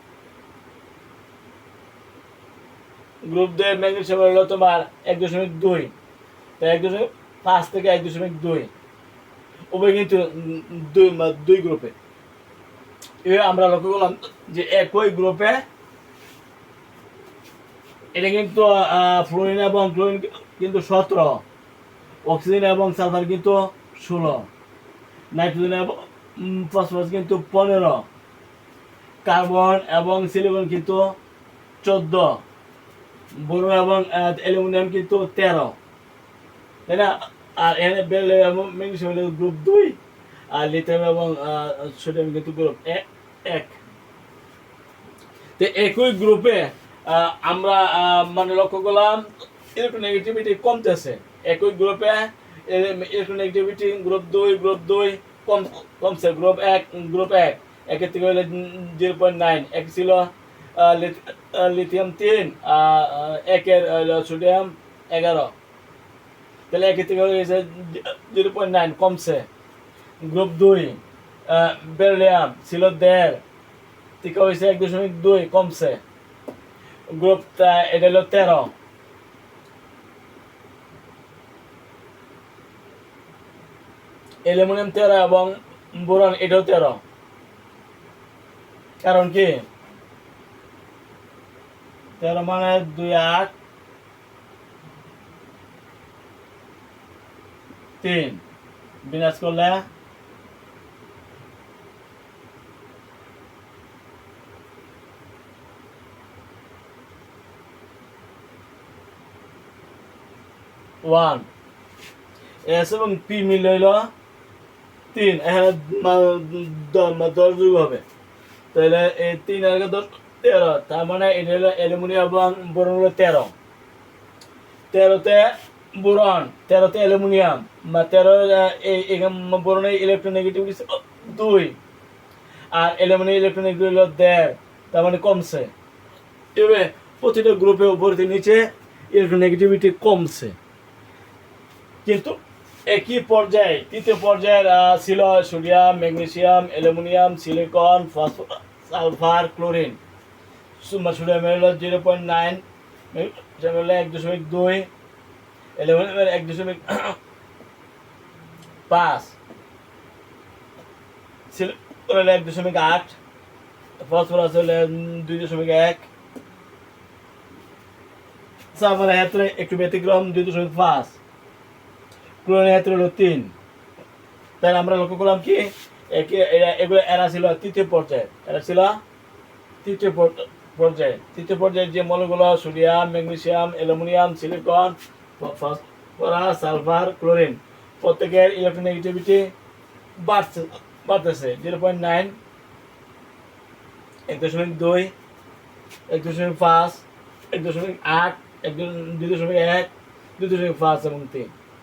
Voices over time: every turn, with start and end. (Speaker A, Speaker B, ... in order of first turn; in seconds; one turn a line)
Speaker A: 3.2-5.9
Speaker A: 6.6-8.7
Speaker A: 9.7-11.9
Speaker A: 13.2-15.6
Speaker A: 18.1-21.4
Speaker A: 22.3-24.5
Speaker A: 25.4-28.0
Speaker A: 29.2-31.1
Speaker A: 31.8-32.4
Speaker A: 33.4-35.7
Speaker A: 36.9-40.0
Speaker A: 40.5-43.8
Speaker A: 45.6-49.2
Speaker A: 49.8-65.5
Speaker A: 66.7-69.5
Speaker A: 70.2-73.4
Speaker A: 74.2-76.0
Speaker A: 77.1-78.7
Speaker A: 84.5-87.0
Speaker A: 89.0-89.6
Speaker A: 92.2-93.5
Speaker A: 98.0-98.4
Speaker A: 99.0-99.8
Speaker A: 111.0-111.5
Speaker A: 112.7-114.1
Speaker A: 115.1-118.0
Speaker A: 118.7-123.5
Speaker A: 124.9-131.8
Speaker A: 132.7-135.7
Speaker A: 136.6-140.6
Speaker A: 142.0-150.0
Speaker A: 150.8-154.9
Speaker A: 155.8-157.2
Speaker A: 158.9-159.4
Speaker A: 161.5-163.2
Speaker A: 164.0-166.1
Speaker A: 168.7-171.2
Speaker A: 172.4-173.5
Speaker A: 174.6-179.0
Speaker A: 179.8-189.5
Speaker A: 190.2-192.4
Speaker A: 194.3-195.1
Speaker A: 196.1-201.5